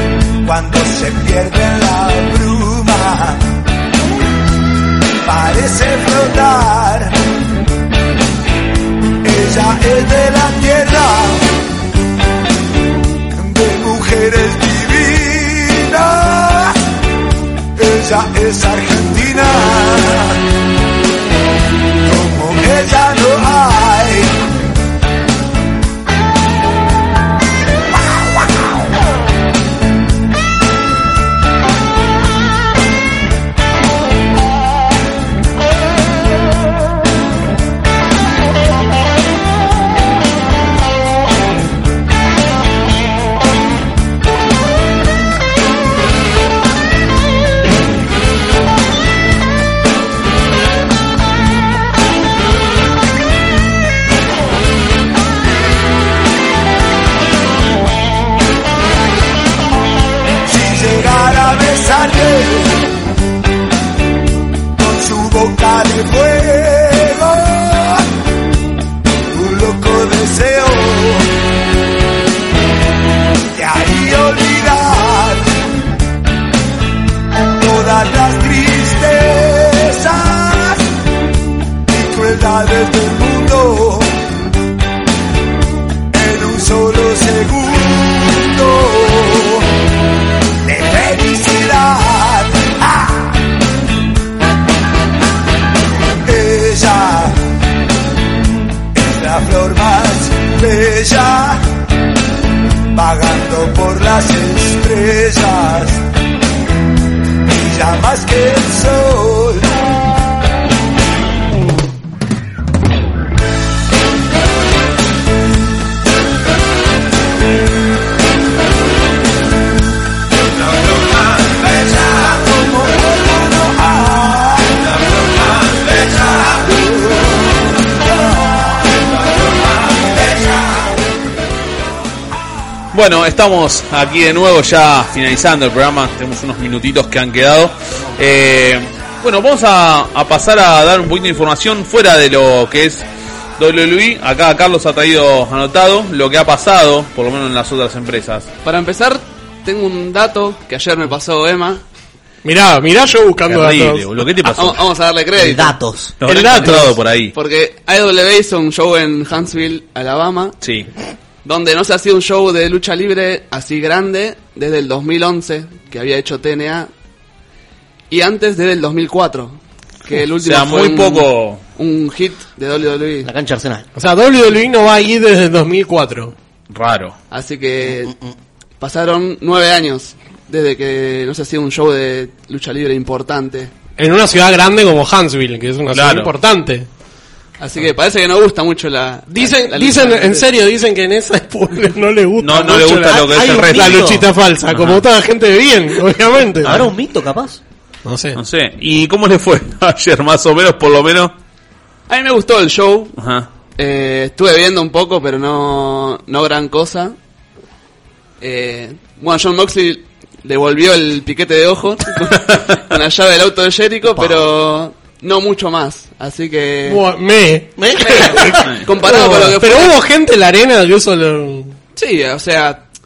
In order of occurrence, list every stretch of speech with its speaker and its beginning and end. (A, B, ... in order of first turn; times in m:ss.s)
0:00.4-0:03.5 A
0:05.2-0:07.2 A
0:09.2-0:11.5 A
0:13.3-0:16.8 A
0:17.8-0:20.4 A
0:22.0-0:24.4 A
1:00.4-1:02.8 A
1:04.8-1:08.0 A
1:09.3-1:11.3 A
1:13.5-1:15.5 A
1:17.6-1:20.9 A
1:21.9-1:24.1 A
1:26.1-1:29.7 A
1:30.6-1:33.4 A
1:36.3-1:37.4 A
1:38.9-1:41.6 A
1:42.9-1:46.0 A
1:47.5-1:49.7 A
2:01.3-2:08.7 A
2:10.0-2:10.5 A
2:12.9-2:23.0 B
2:23.6-2:28.5 B
2:28.6-2:31.8 C
2:32.4-2:34.1 D
2:33.5-2:34.9 B
2:34.5-2:35.8 C
2:35.4-2:36.7 E
2:36.2-2:37.3 B
2:36.2-2:36.9 D
2:37.3-2:40.6 C
2:40.6-2:40.9 B
2:41.4-2:46.9 C
2:48.1-2:53.3 C
2:50.4-2:51.6 B
2:53.2-2:53.9 E
2:54.0-2:56.3 D
2:56.7-2:57.2 B
2:57.3-2:58.1 C
2:58.0-2:58.4 E
2:58.8-3:03.7 C
3:04.0-3:06.9 D
3:05.9-3:06.3 B
3:07.6-3:10.5 C
3:09.3-3:16.9 D
3:12.4-3:14.2 B
3:13.1-3:14.3 E
3:14.7-3:15.0 B
3:16.6-3:17.6 E
3:18.1-3:18.4 D
3:18.4-3:21.3 B
3:22.1-3:23.2 C
3:23.2-3:23.5 B
3:23.8-3:27.2 C
3:28.4-3:37.0 C
3:34.1-3:34.5 E
3:36.9-3:41.8 D
3:37.8-3:38.8 E
3:38.0-3:40.0 C
3:42.0-3:42.8 C